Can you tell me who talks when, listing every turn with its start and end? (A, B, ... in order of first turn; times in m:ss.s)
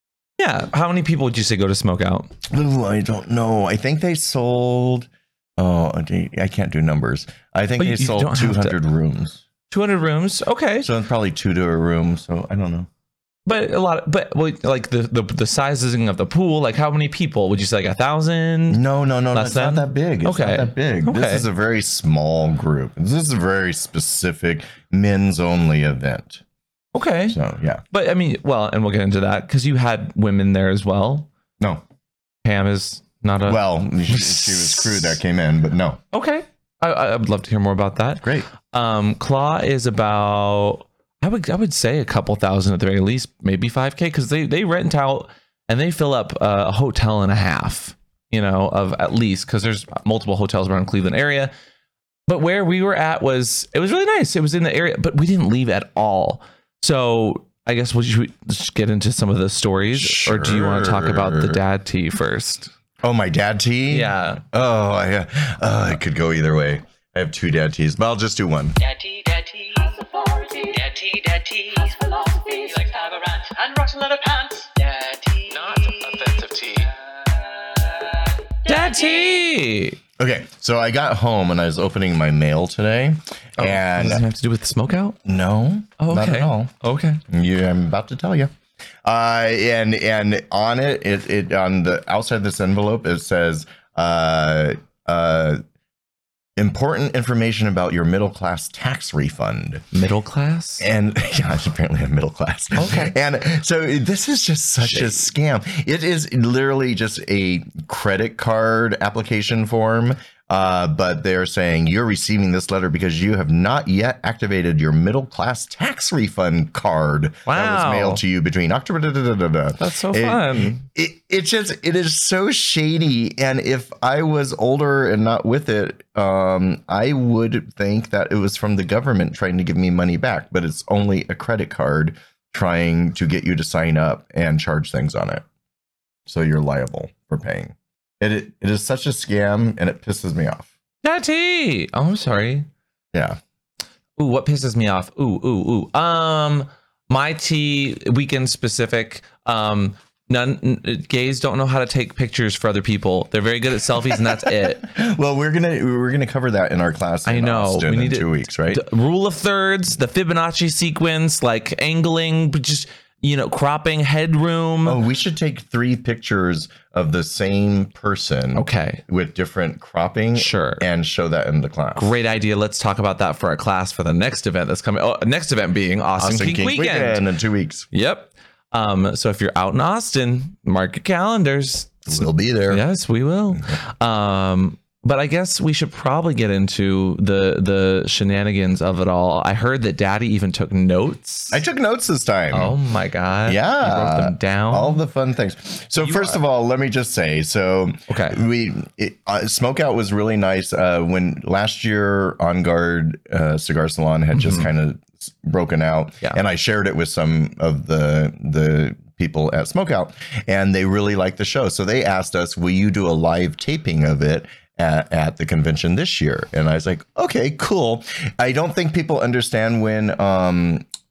0:00.4-0:02.3 A
0:02.5-0:09.4 B
0:07.8-0:08.8 A
0:09.7-0:10.9 A
0:10.8-0:12.9 B
0:13.4-0:21.4 A
0:18.7-0:26.4 B
0:26.9-0:27.4 A
0:27.3-0:27.8 B
0:27.9-0:31.3 A
0:32.4-0:35.2 A
0:33.4-0:36.0 B
0:36.1-0:51.5 A
0:38.2-0:38.5 B
0:52.3-1:02.7 A
0:59.9-1:01.6 B
1:03.0-1:08.8 B
1:03.9-1:04.4 A
1:08.8-1:19.4 C
1:15.5-1:16.9 A
1:18.6-1:20.0 A
1:20.2-1:24.2 B
1:23.6-1:25.2 A
1:25.2-1:26.7 B
1:26.0-1:27.2 A
1:27.3-1:28.5 B
1:29.0-1:35.6 B
1:36.6-1:39.8 B
1:39.9-1:40.8 A
1:40.8-2:15.4 B
1:42.7-1:43.1 A
1:44.8-1:45.1 A
1:57.4-1:58.2 A
1:59.8-2:00.8 A
2:16.2-2:20.7 B
2:21.0-2:22.7 A
2:23.1-2:23.4 B
2:24.2-2:34.8 A
2:34.1-2:38.8 B
2:37.2-2:45.0 A
2:44.8-2:52.1 B
2:48.5-2:49.0 A
2:50.3-2:50.8 A
2:52.0-2:57.2 A
2:56.2-2:57.9 B
2:57.9-3:02.1 A
3:02.1-3:02.8 B
3:02.7-3:11.6 A
3:11.5-3:12.8 B
3:12.5-3:15.0 A
3:13.5-3:40.8 B
3:16.0-3:16.4 A
3:18.1-3:18.4 A
3:24.3-3:24.7 A